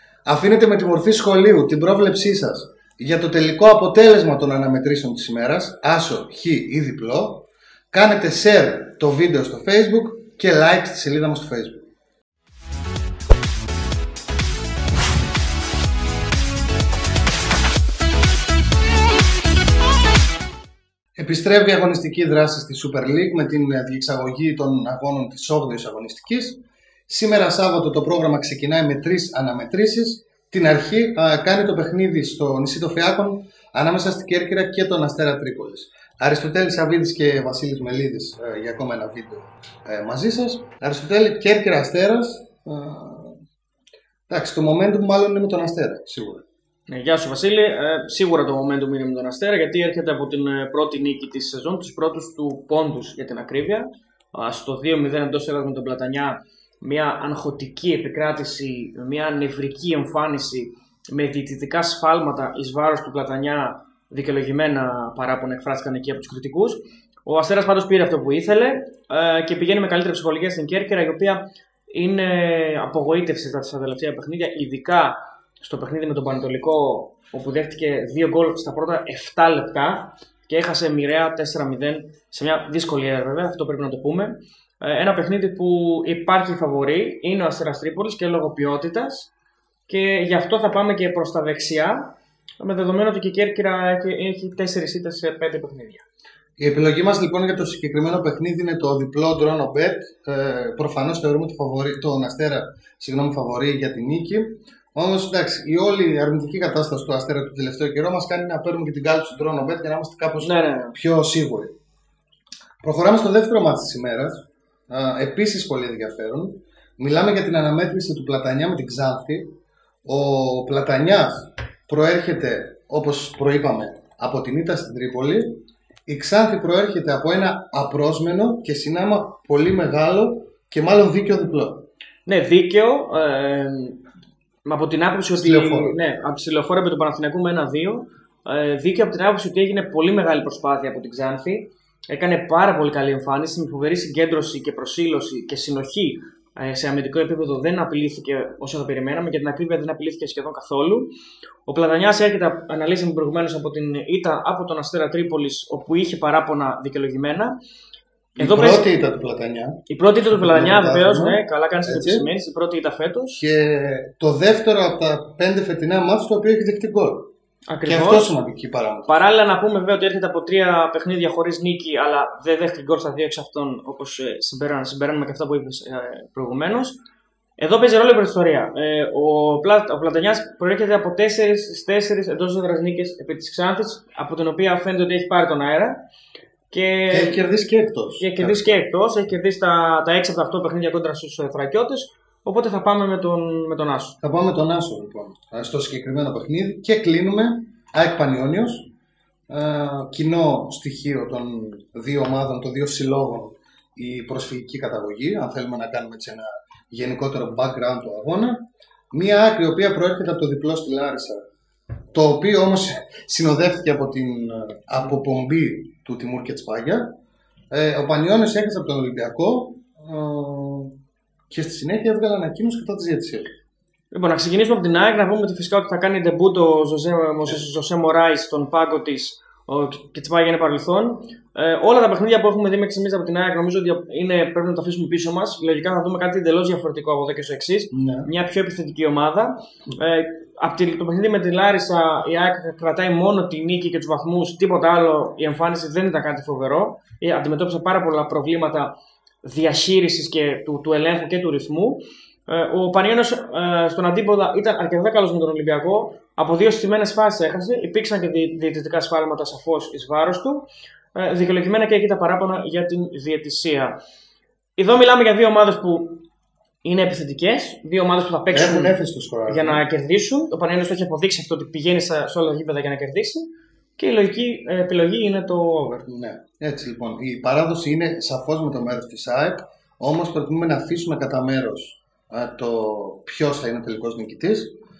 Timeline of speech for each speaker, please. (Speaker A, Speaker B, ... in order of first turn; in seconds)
Speaker A: 0.2-11.9, 21.2-43.4, 44.3-46.4, 96.6-111.7, 112.8-119.5, 120.0-131.9, 135.4-136.0, 158.4-162.2, 163.4-167.3, 167.8-169.3, 187.1-188.8, 194.2-198.9, 199.5-211.4, 212.1-217.1, 217.7-220.9, 221.5-223.5, 237.9-238.3, 268.5-269.8, 276.1-284.7
Speaker B: 46.9-89.3, 89.9-96.0, 110.4-111.0, 132.2-134.0, 134.7-151.1, 151.7-157.5, 158.3-158.9, 159.9-163.4, 167.7-168.3, 169.1-177.0, 177.6-185.9, 186.7-187.4, 188.2-194.2, 224.1-248.9, 249.4-263.9, 264.8-266.2, 266.8-268.9, 269.5-276.1